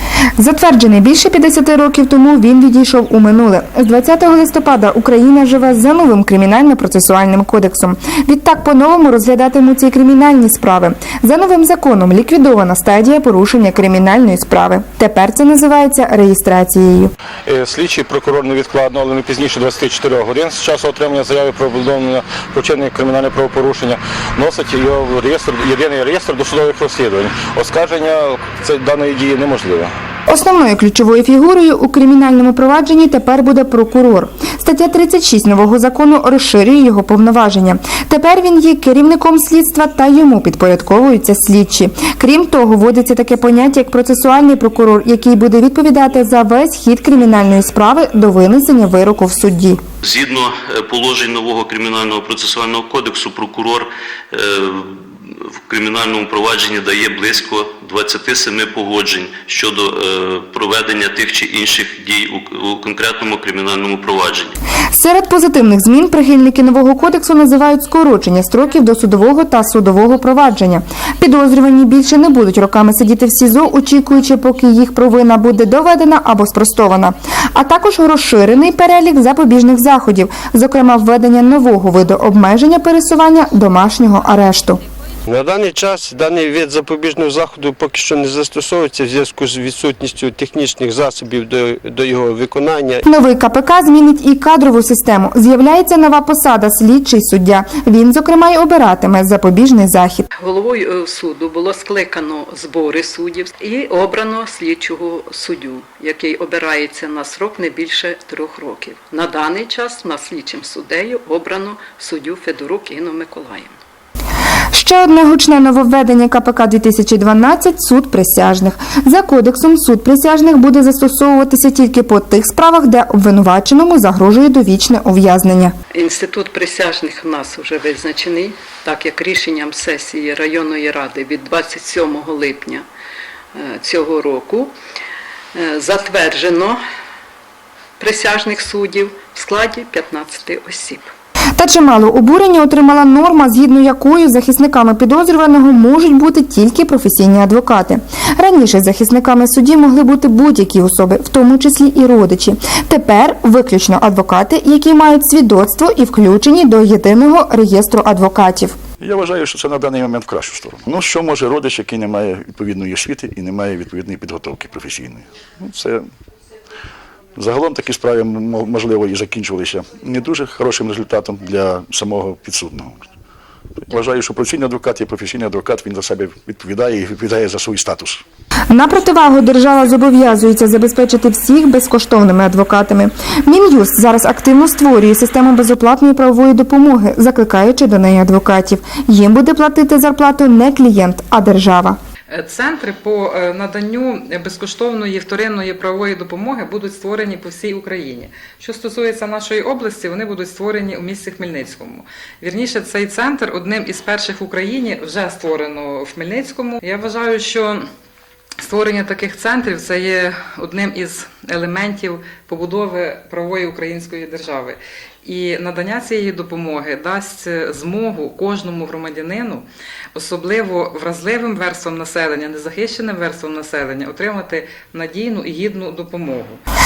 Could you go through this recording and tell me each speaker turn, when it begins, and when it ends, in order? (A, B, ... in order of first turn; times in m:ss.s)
0:00.4-0:17.1 A
0:17.5-0:29.9 B
0:30.3-0:49.8 A
0:50.0-1:04.5 C
1:04.9-1:24.8 A
1:25.3-1:33.0 D
1:33.0-1:40.3 A
1:40.4-1:53.8 E
1:54.7-2:05.7 A
2:05.9-2:12.8 E
2:13.5-2:14.7 E
2:15.6-2:16.8 E
2:18.0-2:21.1 E
2:21.6-2:38.8 A
2:39.0-2:46.1 F
2:47.4-2:53.0 F
2:53.8-2:58.2 F
2:58.7-3:12.0 A
3:12.3-3:27.8 G
3:28.6-3:46.6 G